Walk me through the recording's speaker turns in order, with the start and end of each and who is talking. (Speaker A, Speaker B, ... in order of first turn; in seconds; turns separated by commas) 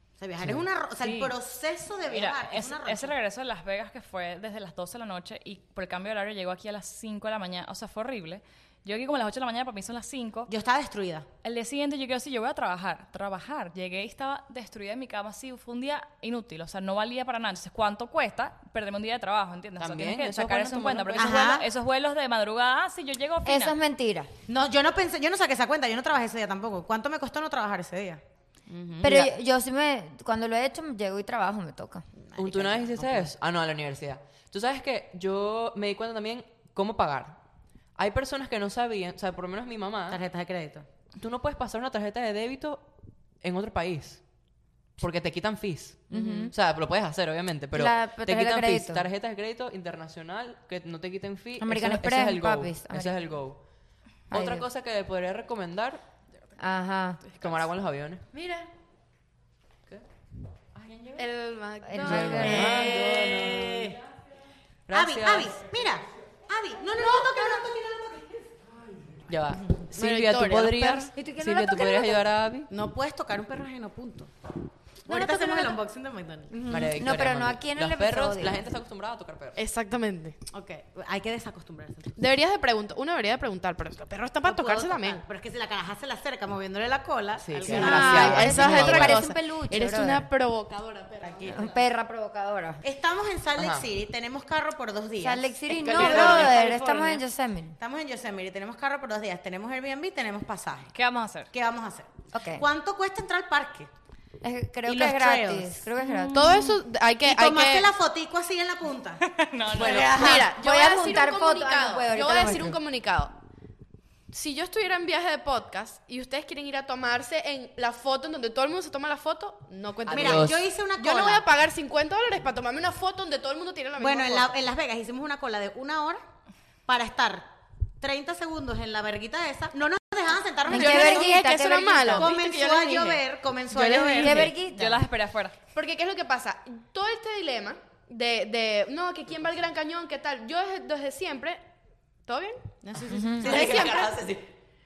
Speaker A: 0.2-3.2, Speaker B: 1.0-1.4, Speaker B: 2.1-10.5, Speaker A: 10.5-11.3, Speaker B: 11.4-23.8, Speaker C: 19.8-21.5, Speaker A: 21.2-21.7, Speaker D: 23.4-24.3, Speaker A: 24.5-29.3, Speaker D: 29.0-32.0, Speaker A: 32.2-33.3, Speaker C: 32.4-37.4, Speaker C: 38.0-40.2, Speaker A: 40.1-40.9, Speaker C: 41.2-42.9, Speaker C: 43.4-44.2, Speaker C: 45.0-53.6, Speaker D: 46.1-46.5, Speaker A: 46.1-46.5, Speaker D: 47.7-49.0, Speaker D: 51.6-53.2, Speaker C: 54.3-56.0, Speaker D: 54.3-54.7, Speaker D: 56.6-57.2, Speaker C: 57.4-58.3, Speaker E: 58.3-58.7, Speaker C: 60.8-61.2, Speaker E: 61.2-63.0, Speaker D: 61.8-63.0, Speaker C: 62.0-64.0, Speaker A: 62.5-64.0, Speaker C: 64.9-65.6, Speaker A: 64.9-69.7, Speaker C: 69.3-72.7, Speaker E: 69.9-71.1, Speaker D: 71.2-72.2, Speaker A: 72.7-74.3, Speaker A: 75.1-76.5, Speaker E: 75.1-75.7, Speaker D: 76.5-78.6, Speaker C: 76.7-79.6, Speaker E: 79.6-80.4, Speaker A: 80.5-82.2, Speaker E: 82.2-85.2, Speaker A: 84.4-88.8, Speaker C: 87.4-89.2, Speaker E: 87.7-91.7, Speaker D: 87.7-90.3, Speaker A: 91.2-91.7, Speaker D: 91.5-92.8, Speaker A: 92.8-97.2, Speaker C: 93.6-93.9, Speaker D: 95.2-97.8, Speaker E: 95.8-97.1, Speaker A: 97.8-100.9, Speaker B: 100.9-101.5, Speaker A: 101.5-103.9, Speaker D: 102.3-102.7, Speaker D: 104.4-106.7, Speaker A: 104.9-105.8, Speaker B: 106.0-106.8, Speaker E: 106.3-107.9, Speaker A: 107.2-110.5, Speaker B: 109.2-110.4, Speaker C: 109.8-110.2, Speaker E: 110.0-113.3, Speaker D: 110.4-112.8, Speaker E: 114.3-124.5, Speaker C: 120.0-120.6, Speaker A: 120.1-121.5, Speaker A: 124.0-126.2, Speaker A: 126.9-127.5, Speaker A: 128.0-131.5, Speaker D: 130.7-132.3, Speaker E: 130.7-134.5, Speaker A: 132.1-134.5, Speaker D: 134.2-135.0, Speaker B: 134.5-135.6, Speaker E: 135.7-141.7, Speaker E: 142.2-142.6, Speaker A: 142.8-144.2, Speaker D: 143.1-143.5, Speaker C: 143.4-144.4, Speaker E: 143.4-144.1